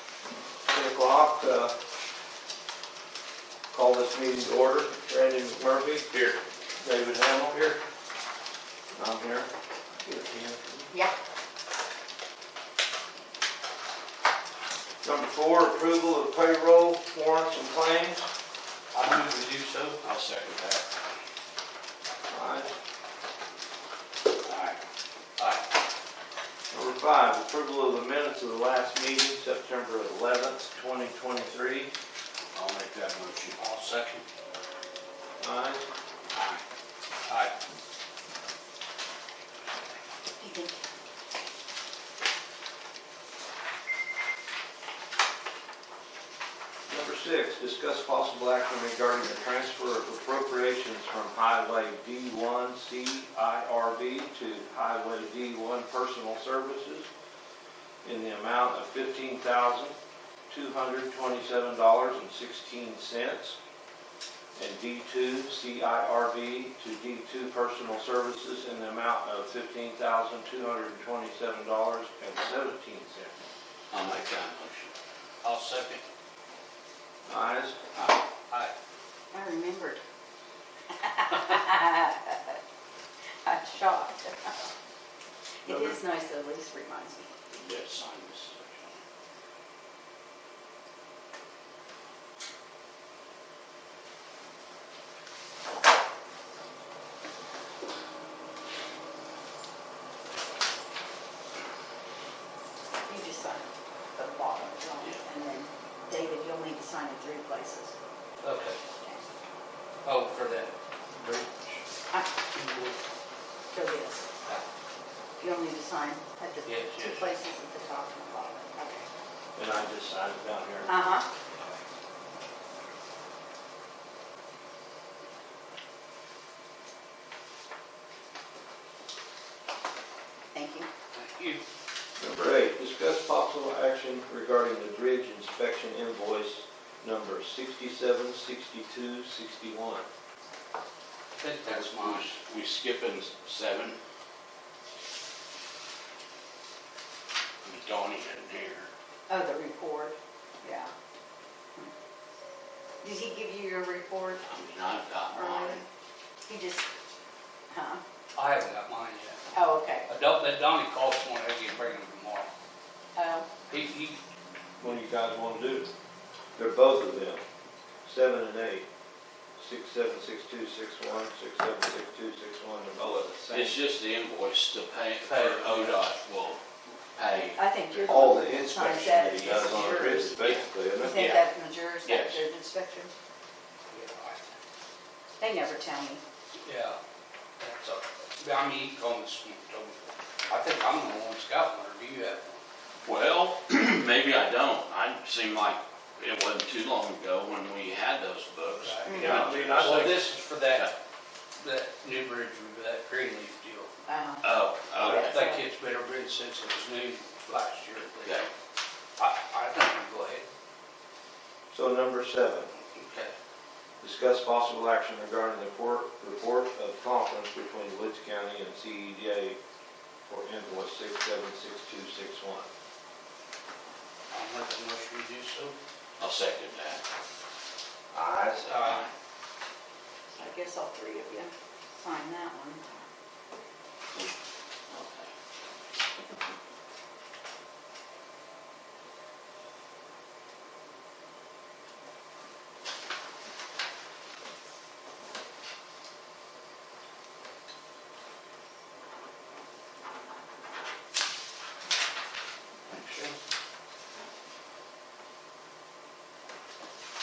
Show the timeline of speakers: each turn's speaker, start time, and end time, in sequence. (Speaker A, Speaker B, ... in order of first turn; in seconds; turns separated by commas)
Speaker A: 0.7-1.7, Speaker A: 3.7-6.1, Speaker B: 6.1-6.4, Speaker A: 6.8-7.8, Speaker A: 8.9-9.5, Speaker A: 10.0-10.9, Speaker A: 15.0-18.3, Speaker C: 18.9-20.0, Speaker B: 20.0-20.9, Speaker A: 22.3-22.7, Speaker A: 26.7-31.9, Speaker B: 32.5-33.6, Speaker C: 33.5-34.2, Speaker A: 35.4-35.9, Speaker C: 37.2-37.5, Speaker D: 40.4-40.8, Speaker A: 46.9-57.1, Speaker A: 58.0-59.9, Speaker A: 60.5-63.6, Speaker A: 64.5-73.3, Speaker B: 73.9-74.9, Speaker C: 75.4-76.0, Speaker A: 77.3-77.8, Speaker D: 79.3-80.0, Speaker D: 80.9-82.6, Speaker D: 83.4-84.7, Speaker D: 85.6-87.6, Speaker A: 85.7-86.0, Speaker B: 87.5-89.0, Speaker D: 103.0-107.9, Speaker C: 108.4-108.8, Speaker D: 109.0-109.3, Speaker C: 110.0-111.8, Speaker C: 112.5-113.0, Speaker D: 113.7-114.3, Speaker D: 115.4-119.0, Speaker C: 116.7-117.2, Speaker A: 119.5-120.9, Speaker D: 120.8-121.3, Speaker D: 130.5-130.9, Speaker C: 131.1-131.6, Speaker A: 132.2-140.1, Speaker C: 141.4-142.3, Speaker B: 141.7-144.0, Speaker B: 147.6-148.9, Speaker D: 149.3-150.9, Speaker D: 153.0-154.4, Speaker B: 154.4-155.8, Speaker D: 155.3-155.8, Speaker D: 156.4-156.8, Speaker D: 157.7-158.0, Speaker C: 158.3-159.4, Speaker D: 159.5-160.1, Speaker C: 160.1-162.5, Speaker D: 163.1-163.5, Speaker C: 163.7-164.2, Speaker A: 164.8-165.9, Speaker A: 166.6-167.4, Speaker A: 168.0-168.8, Speaker A: 169.6-173.8, Speaker B: 173.5-177.6, Speaker C: 175.2-176.1, Speaker D: 177.5-180.4, Speaker A: 178.0-181.3, Speaker B: 180.3-181.5, Speaker D: 181.0-183.1, Speaker B: 182.0-182.4, Speaker C: 183.9-184.6, Speaker D: 185.4-186.2, Speaker C: 186.6-187.0, Speaker C: 187.6-192.6, Speaker B: 193.0-200.9, Speaker C: 198.8-200.9, Speaker D: 199.1-199.4, Speaker A: 199.1-200.1, Speaker C: 201.6-203.9, Speaker D: 204.1-205.6, Speaker B: 204.4-205.4, Speaker C: 205.1-208.4, Speaker B: 208.2-208.5, Speaker C: 209.2-210.4, Speaker A: 211.7-212.7, Speaker C: 212.7-213.3, Speaker A: 214.0-219.6, Speaker A: 220.3-222.7, Speaker C: 224.3-225.7, Speaker B: 226.2-227.0, Speaker A: 228.1-228.8, Speaker C: 228.6-229.0, Speaker B: 228.8-229.1, Speaker D: 230.3-232.9, Speaker B: 234.9-235.3, Speaker C: 252.9-253.4